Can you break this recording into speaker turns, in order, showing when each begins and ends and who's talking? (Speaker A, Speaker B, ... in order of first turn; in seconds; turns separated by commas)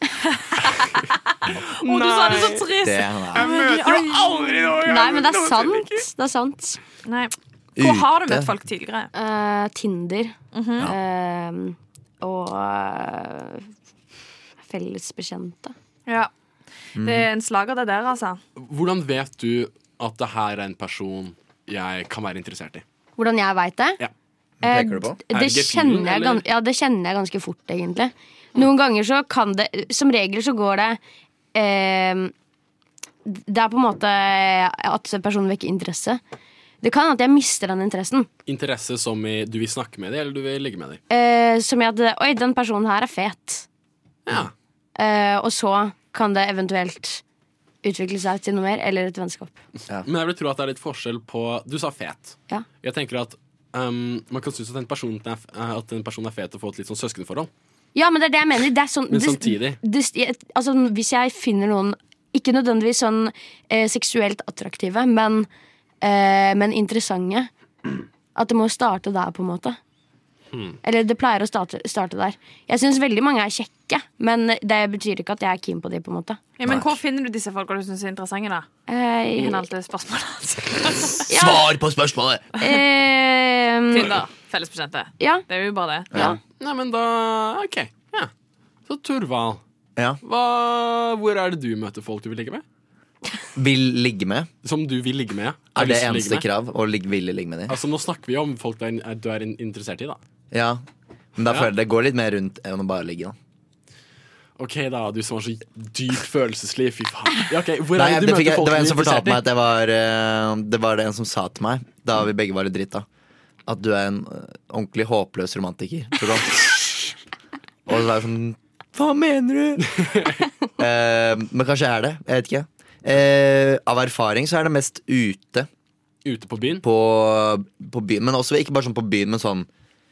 Speaker A: 0.6-1.0, Speaker B: 1.5-2.7, Speaker A: 1.8-4.3, Speaker C: 2.8-3.5, Speaker B: 3.4-6.0, Speaker D: 4.8-6.8, Speaker A: 7.1-9.1, Speaker C: 7.8-8.5, Speaker D: 9.1-13.7, Speaker A: 10.5-10.9, Speaker D: 14.7-15.7, Speaker C: 17.0-17.3, Speaker A: 17.0-18.4, Speaker B: 18.6-22.8, Speaker D: 23.2-24.0, Speaker C: 24.6-25.2, Speaker D: 24.6-31.0, Speaker B: 25.3-26.4, Speaker D: 31.5-32.3, Speaker D: 33.3-36.2, Speaker D: 36.8-38.3, Speaker B: 38.5-41.0, Speaker D: 41.1-43.7, Speaker B: 44.3-44.5, Speaker D: 45.0-47.2, Speaker D: 47.8-49.5, Speaker B: 50.0-57.5, Speaker D: 58.0-65.5, Speaker B: 59.1-59.8, Speaker D: 66.0-67.5, Speaker D: 68.3-69.8, Speaker D: 70.8-76.4, Speaker A: 76.6-78.7, Speaker C: 76.6-76.9, Speaker D: 78.9-79.6, Speaker A: 79.3-81.3, Speaker D: 81.3-81.7, Speaker C: 81.3-82.5, Speaker D: 82.6-84.1, Speaker A: 83.9-86.1, Speaker D: 85.2-85.5, Speaker C: 86.1-86.4, Speaker D: 86.1-86.4, Speaker B: 86.6-88.3, Speaker B: 88.9-89.6, Speaker B: 90.2-92.6, Speaker C: 93.5-94.5, Speaker B: 94.6-96.5, Speaker C: 95.8-97.8, Speaker B: 97.7-100.2, Speaker C: 100.5-100.8, Speaker C: 101.4-103.3, Speaker B: 101.5-101.7, Speaker B: 104.6-109.4, Speaker C: 108.0-113.1, Speaker C: 113.7-116.7, Speaker C: 117.9-119.9, Speaker B: 120.0-120.3, Speaker C: 120.8-125.7, Speaker B: 126.2-126.8, Speaker C: 126.8-129.7